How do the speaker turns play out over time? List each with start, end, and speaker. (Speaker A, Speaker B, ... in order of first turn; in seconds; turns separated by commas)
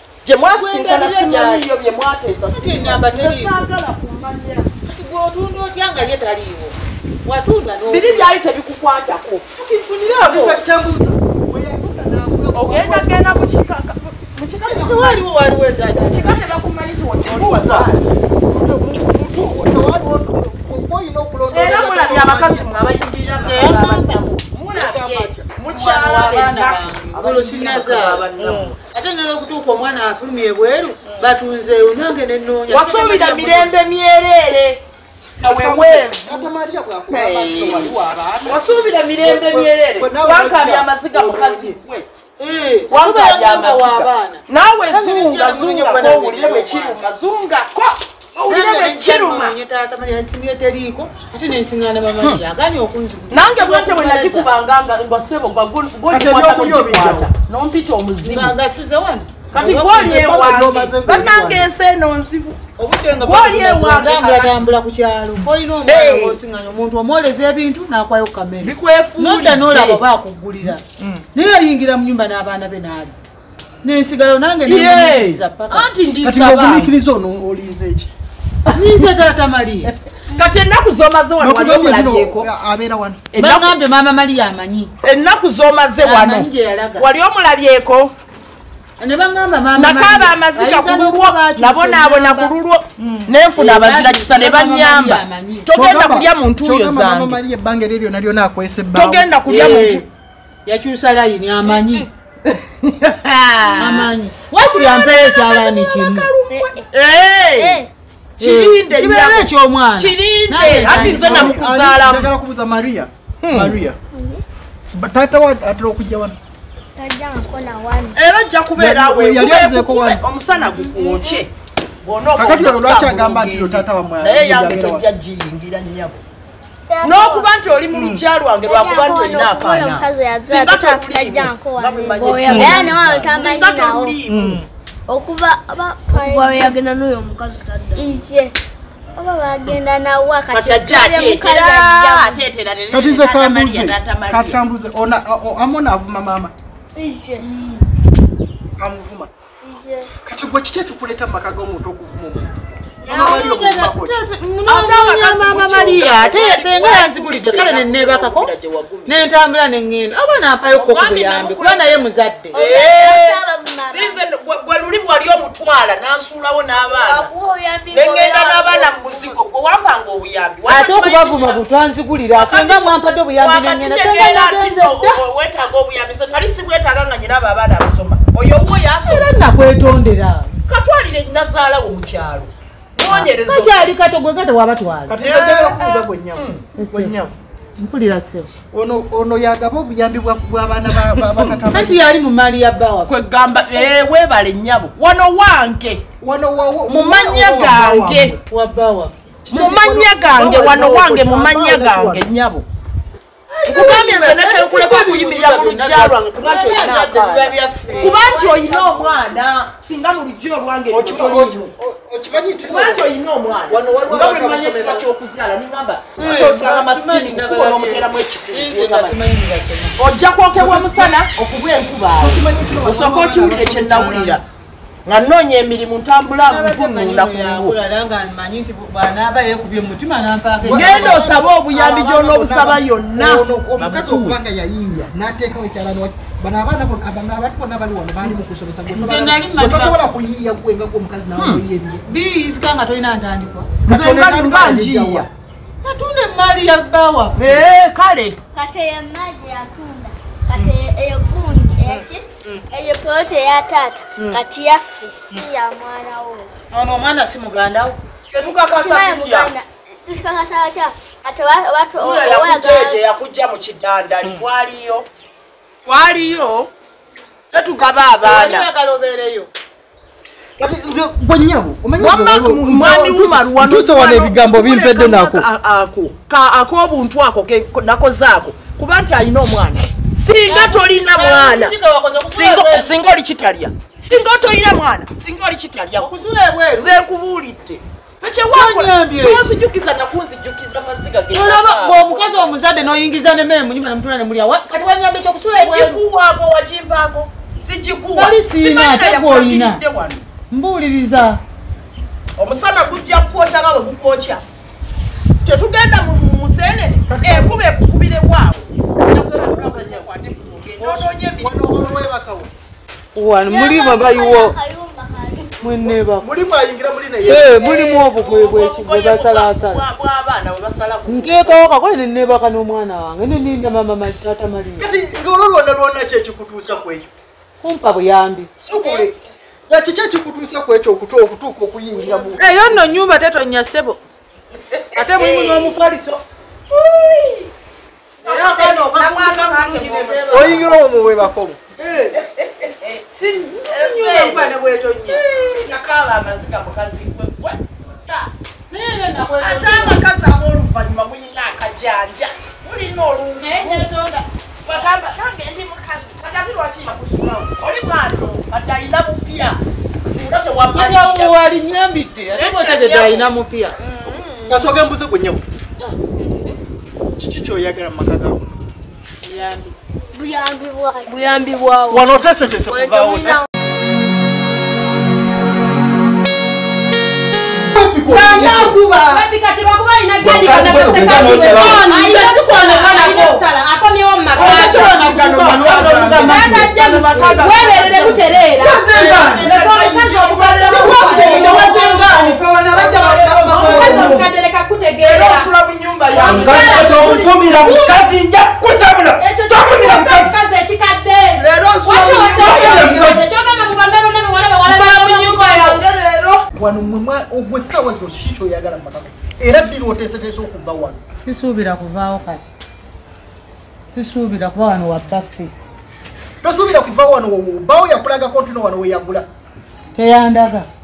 Speaker A: 0.2-4.7, Speaker B: 0.5-1.6, Speaker B: 2.5-3.7, Speaker B: 4.8-8.3, Speaker A: 7.9-9.4, Speaker C: 9.6-13.6, Speaker A: 10.3-10.5, Speaker A: 12.5-15.2, Speaker B: 14.6-16.4, Speaker A: 15.9-18.0, Speaker C: 17.3-22.7, Speaker A: 21.5-28.8, Speaker B: 23.4-24.3, Speaker C: 24.7-25.5, Speaker B: 25.7-28.2, Speaker C: 28.4-28.7, Speaker B: 28.9-33.7, Speaker C: 31.1-31.4, Speaker A: 32.7-34.8, Speaker A: 35.4-36.5, Speaker C: 35.4-38.6, Speaker A: 37.1-42.1, Speaker C: 39.2-41.8, Speaker B: 42.4-47.0, Speaker A: 42.9-49.6, Speaker B: 48.5-54.5, Speaker A: 53.3-58.6, Speaker C: 56.1-57.3, Speaker B: 58.2-60.3, Speaker A: 59.5-62.7, Speaker C: 59.6-61.7, Speaker B: 62.8-70.8, Speaker A: 63.2-64.7, Speaker A: 65.8-66.4, Speaker A: 68.6-70.0, Speaker B: 71.3-73.2, Speaker B: 73.8-75.9, Speaker A: 74.7-76.9, Speaker C: 76.2-78.1, Speaker B: 78.7-79.9, Speaker A: 80.3-82.5, Speaker C: 81.4-83.3, Speaker A: 83.3-83.8, Speaker B: 83.4-84.9, Speaker A: 85.0-88.1, Speaker B: 86.0-87.0, Speaker B: 89.0-92.5, Speaker A: 89.7-97.4, Speaker C: 93.0-93.3, Speaker B: 93.6-95.7, Speaker C: 95.7-99.8, Speaker A: 98.9-100.0, Speaker B: 99.5-100.1, Speaker B: 100.7-102.1, Speaker A: 102.5-107.8, Speaker B: 103.8-106.3, Speaker D: 106.5-106.9, Speaker D: 107.6-107.9, Speaker A: 108.4-112.3, Speaker B: 108.4-111.5, Speaker C: 110.8-114.0, Speaker A: 113.4-113.8, Speaker D: 114.1-114.4, Speaker C: 114.9-116.4, Speaker D: 117.0-118.2, Speaker A: 118.2-121.5, Speaker C: 118.8-120.2, Speaker D: 120.9-121.4, Speaker A: 122.0-126.2, Speaker C: 122.4-125.0, Speaker D: 126.9-127.5, Speaker A: 127.0-134.6, Speaker C: 127.9-128.2, Speaker D: 128.7-134.2, Speaker C: 132.4-133.1, Speaker C: 134.3-134.7, Speaker D: 135.1-136.8, Speaker E: 136.1-138.2, Speaker D: 137.9-138.6, Speaker D: 139.2-142.4, Speaker A: 140.5-144.6, Speaker C: 142.9-146.5, Speaker D: 146.9-147.5, Speaker C: 148.8-149.3, Speaker D: 149.6-150.1, Speaker C: 150.2-154.2, Speaker D: 153.0-153.4, Speaker B: 153.1-158.5, Speaker A: 154.7-159.2, Speaker B: 159.1-162.5, Speaker A: 160.7-163.4, Speaker D: 162.5-164.2, Speaker A: 163.9-167.3, Speaker D: 166.9-169.2, Speaker A: 167.9-171.6, Speaker B: 170.7-175.2, Speaker A: 172.3-179.3, Speaker B: 179.0-180.6, Speaker A: 180.7-183.9, Speaker B: 183.1-185.2, Speaker C: 185.1-187.3, Speaker A: 185.2-186.7, Speaker B: 186.8-187.1, Speaker B: 187.8-188.5, Speaker C: 188.7-192.1, Speaker A: 191.2-191.6, Speaker B: 191.7-193.1, Speaker A: 193.1-196.0, Speaker C: 196.2-198.4, Speaker A: 196.9-198.4, Speaker B: 198.5-199.1, Speaker C: 199.5-201.3, Speaker A: 199.5-202.7, Speaker B: 200.4-202.2, Speaker C: 203.5-204.1, Speaker A: 203.7-211.7, Speaker B: 203.7-208.2, Speaker C: 208.1-208.7, Speaker D: 208.3-208.9, Speaker C: 210.9-213.1, Speaker A: 212.7-219.2, Speaker C: 213.7-215.1, Speaker B: 216.2-220.0, Speaker A: 220.0-224.4, Speaker C: 220.5-221.2, Speaker C: 222.2-224.4, Speaker A: 225.1-227.8, Speaker B: 226.5-231.2, Speaker C: 230.6-242.0, Speaker A: 230.7-234.4, Speaker B: 238.9-240.0, Speaker A: 241.4-241.6, Speaker B: 242.1-243.9, Speaker C: 243.9-245.3, Speaker A: 243.9-245.3, Speaker B: 245.8-247.7, Speaker A: 247.3-248.4, Speaker D: 248.5-256.5, Speaker C: 251.9-252.6, Speaker B: 256.7-258.0, Speaker A: 258.3-259.5, Speaker D: 258.4-263.0, Speaker A: 262.0-265.1, Speaker A: 265.9-266.7, Speaker A: 267.5-268.7, Speaker B: 268.2-269.5, Speaker C: 270.6-275.5, Speaker A: 272.0-281.8, Speaker B: 280.5-282.9, Speaker A: 282.3-286.1, Speaker B: 286.0-286.9, Speaker A: 286.8-292.6, Speaker B: 288.5-289.6, Speaker B: 291.3-296.0, Speaker A: 295.4-300.2, Speaker B: 298.1-299.8, Speaker B: 300.5-301.4, Speaker A: 302.4-304.4, Speaker A: 305.4-311.6, Speaker C: 307.1-307.6, Speaker C: 309.3-310.1, Speaker C: 310.8-312.5, Speaker B: 313.1-314.6, Speaker D: 313.4-315.9, Speaker B: 315.6-316.3, Speaker C: 316.2-317.6, Speaker A: 317.2-321.6, Speaker B: 317.2-319.8, Speaker B: 321.1-324.9, Speaker C: 324.8-327.1, Speaker B: 327.6-328.5, Speaker C: 328.6-329.1, Speaker C: 329.7-332.7, Speaker B: 332.4-334.0, Speaker A: 334.7-335.8, Speaker B: 334.9-336.2, Speaker A: 336.7-337.5, Speaker B: 338.2-340.7, Speaker A: 338.2-340.8, Speaker C: 340.3-341.6, Speaker B: 341.8-342.2, Speaker A: 342.1-343.1, Speaker B: 343.1-345.2, Speaker A: 343.7-344.6, Speaker A: 345.1-348.3, Speaker B: 348.7-350.0, Speaker A: 349.4-353.9, Speaker B: 353.4-354.7, Speaker A: 354.6-361.4, Speaker B: 360.7-363.8, Speaker A: 362.3-364.7, Speaker C: 364.5-365.4, Speaker C: 367.2-368.4, Speaker B: 369.2-369.7, Speaker D: 370.1-371.4, Speaker E: 371.1-373.5, Speaker C: 371.9-373.4, Speaker C: 377.6-378.8, Speaker F: 378.1-395.5, Speaker B: 378.9-379.2, Speaker G: 380.2-382.1, Speaker C: 381.2-381.6, Speaker E: 381.9-382.8, Speaker A: 382.0-383.3, Speaker A: 384.4-388.8, Speaker B: 384.4-387.2, Speaker C: 384.4-384.8, Speaker C: 385.6-386.4, Speaker C: 388.6-389.6, Speaker A: 389.4-391.9, Speaker B: 390.7-394.2, Speaker C: 390.7-394.2, Speaker A: 393.6-394.1, Speaker A: 395.0-397.0, Speaker F: 396.1-398.0, Speaker G: 396.2-400.4, Speaker F: 399.2-405.8, Speaker A: 401.4-403.2, Speaker G: 402.5-403.3, Speaker A: 404.7-406.4, Speaker C: 406.6-411.0, Speaker B: 411.3-412.4, Speaker B: 413.9-415.5, Speaker C: 416.4-419.3, Speaker B: 419.9-420.7